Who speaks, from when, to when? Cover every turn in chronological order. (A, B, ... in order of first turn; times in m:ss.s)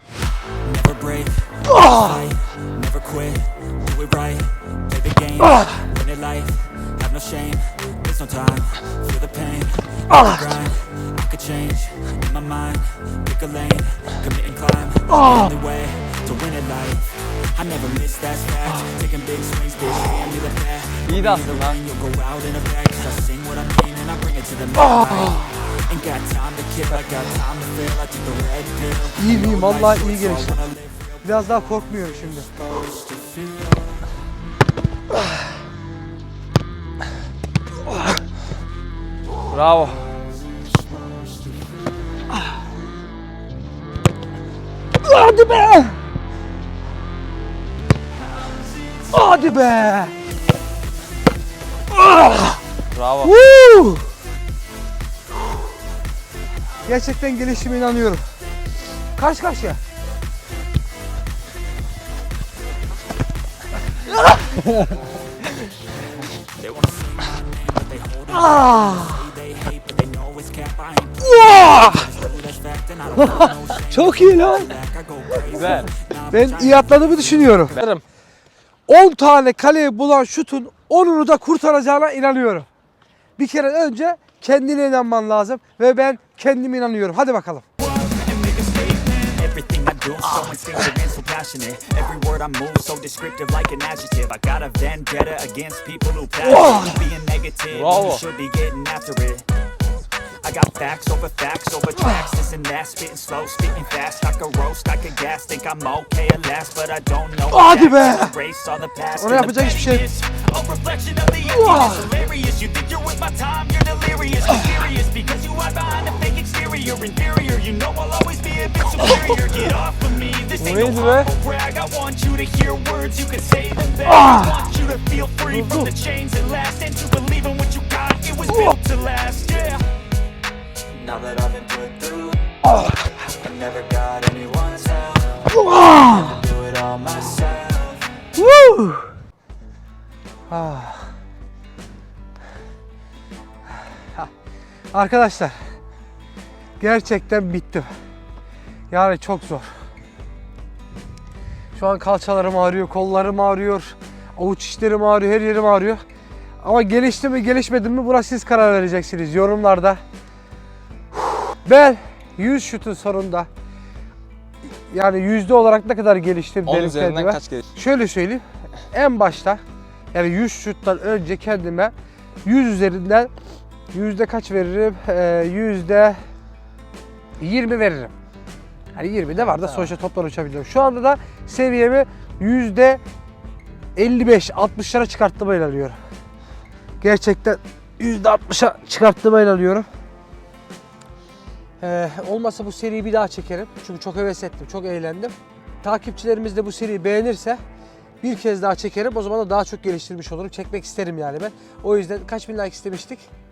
0:00.6-0:31.0 A
0:01.7-0:02.2 B
0:15.1-0:15.5 B
0:21.0-0:21.9 C
0:24.8-0:25.4 B
0:29.2-0:30.7 B
0:31.2-0:32.5 B
0:32.9-0:33.5 A
0:39.5-0:40.0 C
0:45.0-0:46.0 B
0:49.1-0:50.1 B
0:52.0-0:52.6 B
0:52.9-0:53.3 C
0:53.2-0:54.0 B
0:56.8-0:58.2 B
0:59.2-0:59.8 B
1:04.3-1:04.9 B
1:06.6-1:16.9 A
1:08.3-1:09.4 B
1:11.2-1:12.2 B
1:13.1-1:14.8 B
1:15.4-1:15.9 C
1:16.3-1:17.8 B
1:17.7-1:18.0 C
1:18.9-1:22.7 B
1:23.4-1:27.6 B
1:28.0-1:39.5 A
1:36.6-1:36.9 C
1:37.7-1:38.2 C
1:40.4-2:09.8 A
1:42.0-1:42.3 B
1:47.5-1:48.4 B
1:49.2-1:50.1 B
1:51.5-1:52.1 B
2:00.5-2:01.3 C
2:04.1-2:04.6 B
2:05.5-2:05.9 B
2:08.5-2:08.8 B
2:10.9-2:12.5 A
2:13.3-2:15.5 A
2:15.5-2:16.4 B
2:16.1-2:18.3 A
2:18.4-2:19.1 B
2:20.5-2:21.1 B
2:24.9-2:25.6 B
2:26.8-2:27.9 B
2:28.9-2:29.7 B
2:31.7-2:36.0 B
2:36.6-2:40.0 B
2:41.3-2:43.5 B
2:44.9-2:49.6 B
2:46.6-2:47.7 C
2:50.1-2:51.9 B
2:52.4-2:53.3 B
2:53.9-2:56.2 B
2:57.4-2:58.1 B
2:58.9-3:03.0 B
2:59.5-2:59.9 C
3:04.0-3:06.0 B
3:07.0-3:09.9 B
3:11.8-3:17.6 B
3:18.2-3:23.2 B